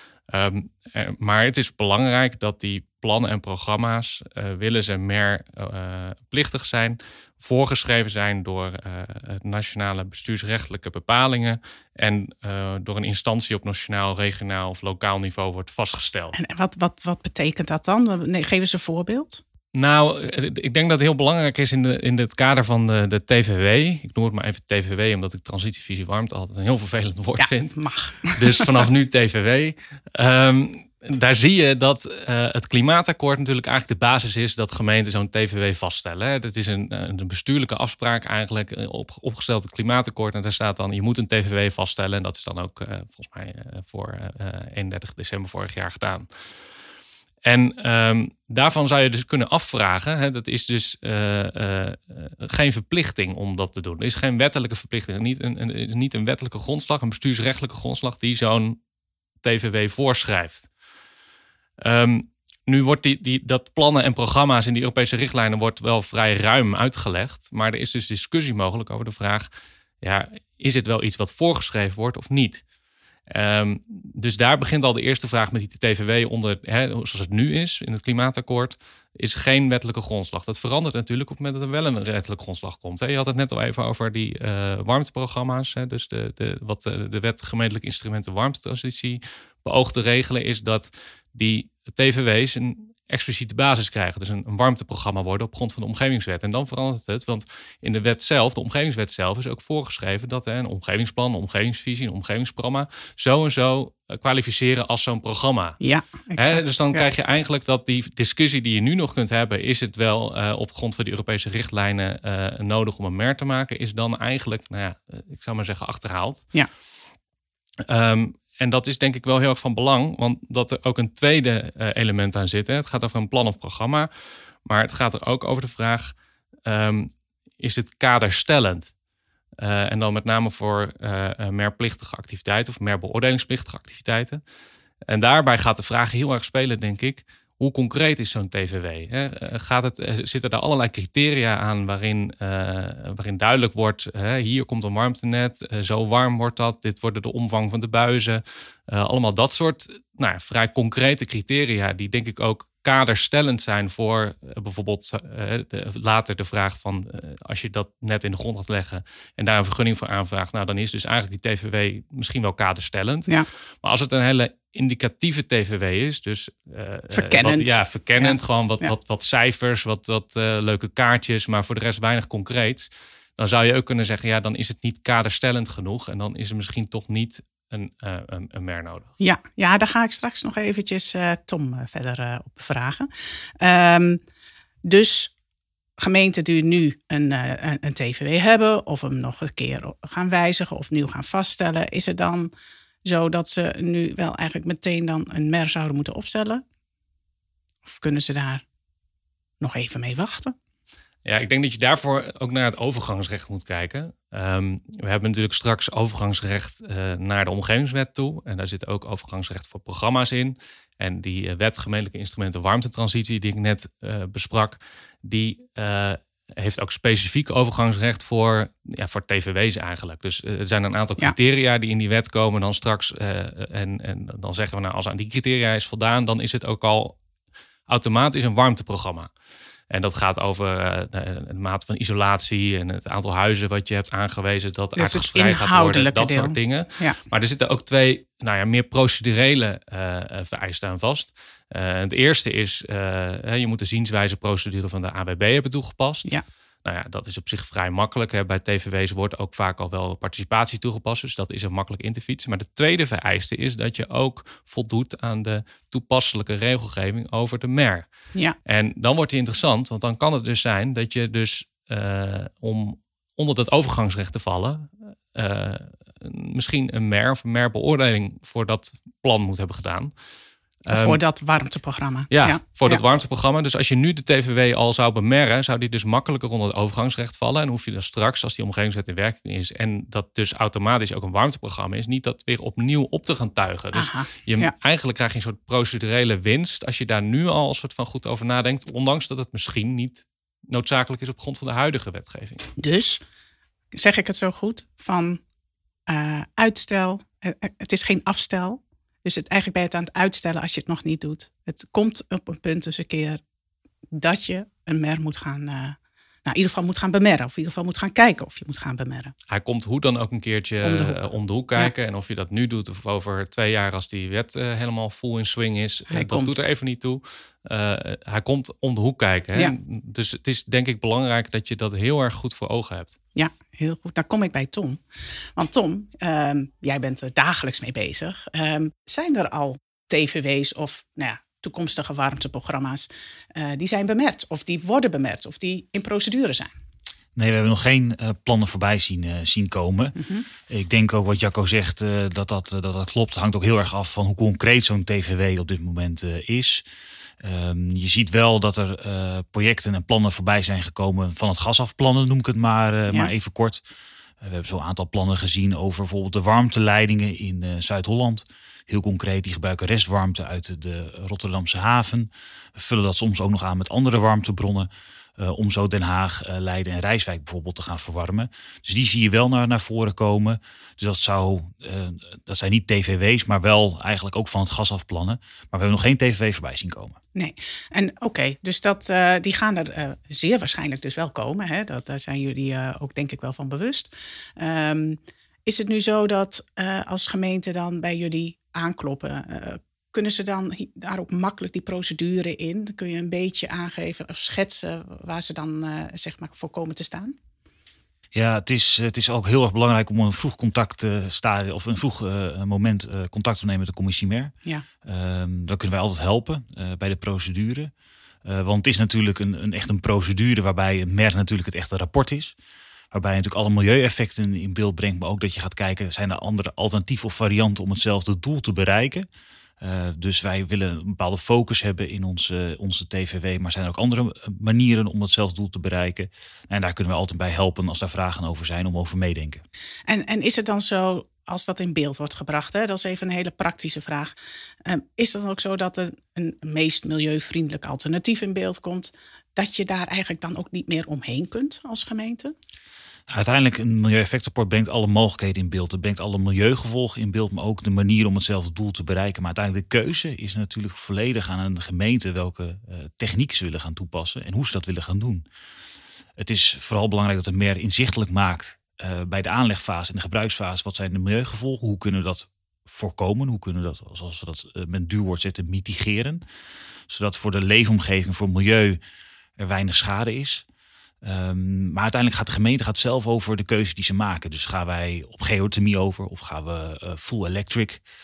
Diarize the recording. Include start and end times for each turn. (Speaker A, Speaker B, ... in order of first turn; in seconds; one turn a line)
Speaker A: 0.3-16.4
Speaker B: 16.3-19.4
Speaker A: 19.7-46.3
Speaker B: 27.4-28.7
Speaker A: 47.4-58.8
Speaker A: 59.4-60.7
Speaker A: 61.8-69.5
Speaker A: 70.0-72.6
Speaker A: 73.3-105.8
Speaker B: 105.8-107.1
Speaker A: 106.4-116.5
Speaker A: 117.8-124.1
Speaker A: 124.7-126.1
Speaker A: 126.7-128.9
Speaker A: 129.6-134.4
Speaker A: 135.1-179.1
Speaker B: 167.1-168.9
Speaker B: 179.2-183.1
Speaker B: 183.6-184.2
Speaker B: 184.8-185.3
Speaker B: 186.0-192.5
Speaker B: 193.0-196.6
Speaker B: 197.8-198.6
Speaker B: 199.6-200.5
Speaker A: 201.2-227.2
Speaker A: 227.9-229.3
Speaker A: 229.9-246.3
Speaker B: 235.0-237.2
Speaker A: 246.8-258.1
Speaker A: 258.6-270.1
Speaker A: 270.9-271.2
Speaker B: 270.9-273.0
Speaker A: 272.3-292.7
Speaker B: 283.9-284.7
Speaker B: 292.8-293.2
Speaker B: 293.9-295.4
Speaker B: 296.1-303.4
Speaker B: 304.1-309.3
Speaker A: 309.5-323.2
Speaker B: 310.8-311.9
Speaker B: 316.1-316.6
Speaker B: 323.4-325.0
Speaker B: 325.6-336.7
Speaker C: 337.3-346.8
Speaker B: 340.2-340.4
Speaker C: 347.4-353.8
Speaker C: 354.4-377.2
Speaker B: 377.3-397.4
Speaker C: 398.3-404.5
Speaker C: 405.0-407.9
Speaker C: 408.4-412.5
Speaker C: 413.1-419.2
Speaker C: 419.8-429.6
Speaker B: 430.1-434.3
Speaker B: 434.8-442.5
Speaker C: 443.3-455.4
Speaker C: 456.4-466.4
Speaker C: 467.1-469.0
Speaker C: 469.6-470.6
Speaker C: 471.2-478.0